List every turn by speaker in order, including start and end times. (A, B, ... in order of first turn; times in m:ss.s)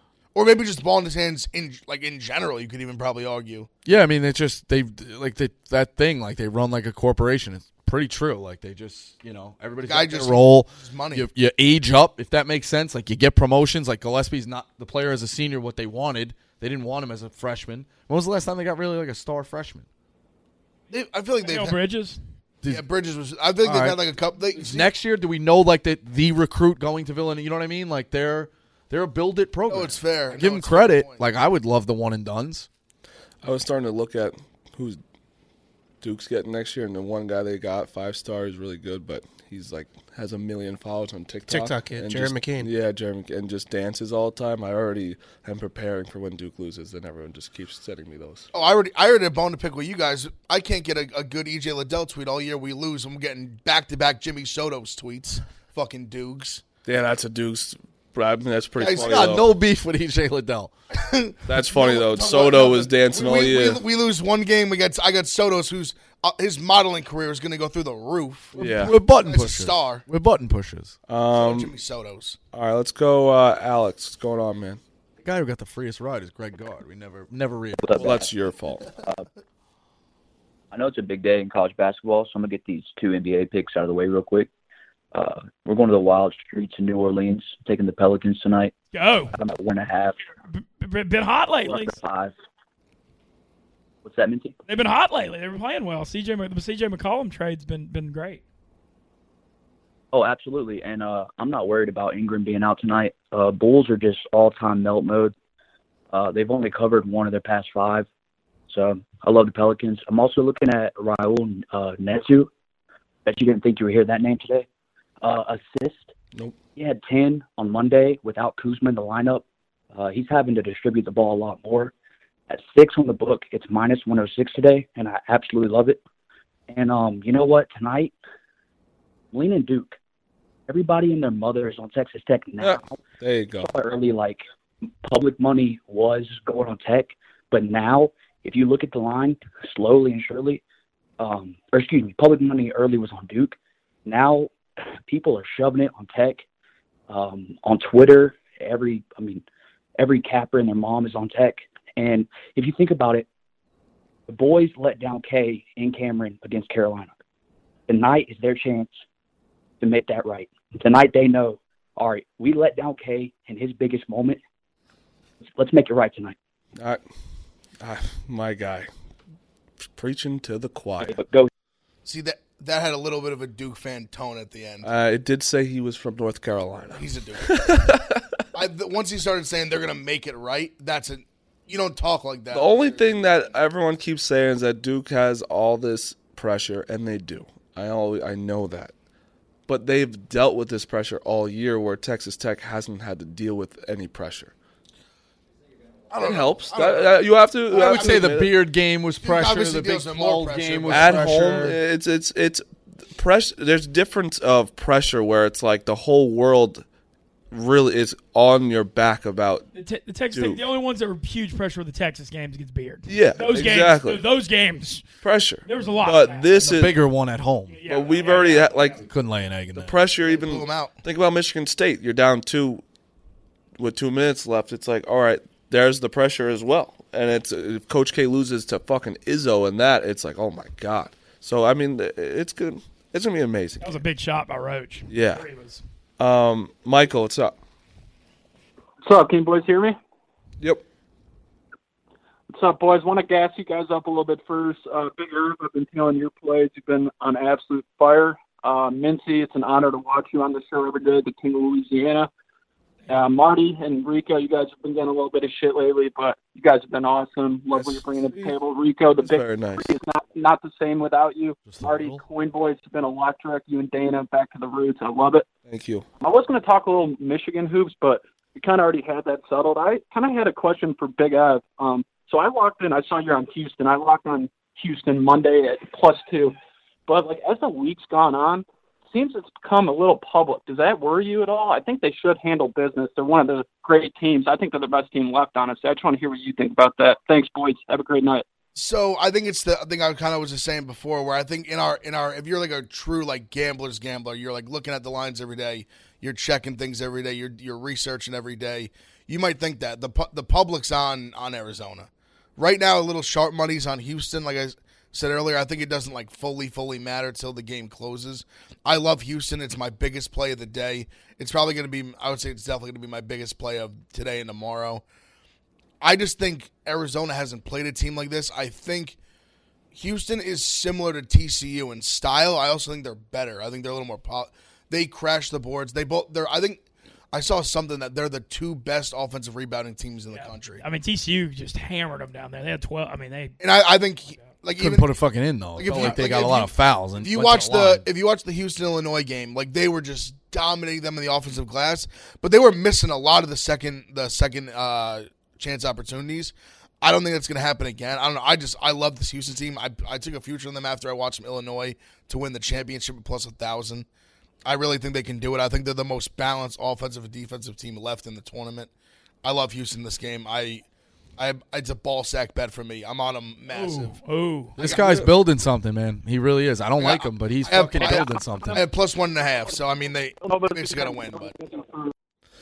0:00.3-0:03.7 A
0:03.8-0:19.8 B
0:09.8-0:11.3 A
0:20.9-0:21.8 A
0:21.4-0:22.2 C
0:22.6-0:24.9 A
0:23.6-0:24.0 B
0:24.5-0:32.7 B
0:29.7-0:31.2 A
0:33.4-0:35.0 D
0:36.0-0:48.5 D
0:48.5-0:56.6 A
0:56.8-0:59.5 D
0:58.8-0:59.4 A
0:58.9-1:00.7 B
1:00.9-1:10.0 A
1:01.5-1:03.8 D
1:08.5-1:08.9 D
1:08.6-1:11.0 B
1:11.1-1:11.7 D
1:11.3-1:12.4 A
1:12.5-1:14.8 D
1:15.2-1:18.1 B
1:17.8-1:18.3 E
1:18.0-1:18.9 D
1:19.0-1:19.2 E
1:20.7-1:24.5 E
1:25.1-1:28.7 E
1:28.9-1:29.3 C
1:29.3-1:30.2 E
1:30.5-1:32.0 C
1:31.6-1:32.3 E
1:34.0-1:34.6 E
1:34.7-1:38.4 C
1:40.1-1:45.3 E
1:46.1-1:48.1 E
1:48.7-1:52.5 E
1:53.2-1:54.7 E
1:55.2-1:56.1 E
1:56.8-2:01.9 E
2:02.5-2:06.0 E
2:06.7-2:08.1 E
2:09.3-2:10.0 E
2:10.7-2:13.0 E
2:12.6-2:13.7 D
2:13.6-2:14.4 E
2:15.0-2:20.6 E
2:21.2-2:24.5 E
2:25.1-2:26.4 E
2:27.1-2:29.4 E
2:30.0-2:33.2 E
2:34.3-2:37.1 E
2:37.9-2:39.0 E
2:39.8-2:44.4 E
2:45.5-2:46.4 E
2:47.8-2:48.9 D
2:49.9-2:51.2 D
2:51.0-2:51.5 E
2:52.0-2:54.9 A
2:54.8-2:58.4 D
2:56.9-2:57.7 A
2:58.5-3:03.4 A
3:02.5-3:08.9 D
3:09.7-3:14.5 D
3:16.1-3:18.2 A
3:16.2-3:18.5 D
3:17.7-3:21.8 B
3:19.2-3:21.7 A
3:20.9-3:26.8 D
3:27.5-3:29.7 D
3:29.7-3:35.0 C
3:30.3-3:30.6 D
3:33.1-3:34.2 D
3:35.2-3:36.9 D
3:35.6-3:36.8 C
3:36.6-3:37.8 B
3:37.7-3:39.0 C
3:37.8-3:39.0 D
3:39.0-3:39.9 B
3:39.7-3:42.8 D
3:40.2-3:41.0 A
3:43.8-3:54.0 D
3:53.8-3:55.8 C
3:55.1-3:55.4 D
3:56.2-3:57.6 D
3:59.0-4:00.0 F
4:02.5-4:12.3 F
4:13.1-4:25.5 F
4:17.7-4:18.5 D
4:19.2-4:19.9 D
4:21.6-4:22.2 B
4:25.7-4:26.0 D
4:26.2-4:36.5 F
4:37.1-4:48.4 F
4:48.7-5:15.0 A
5:16.0-5:19.2 A
5:19.9-5:26.8 A
5:27.3-5:30.8 A
5:30.3-5:33.5 C
5:33.6-5:35.1 A
5:34.8-5:38.0 B
5:35.8-5:54.0 A
5:54.6-5:58.9 A
5:59.4-6:00.8 A
6:01.4-6:04.2 A
6:03.7-6:04.7 C
6:04.8-6:08.8 B
6:04.8-6:05.2 A
6:07.0-6:11.5 A
6:10.4-6:12.1 F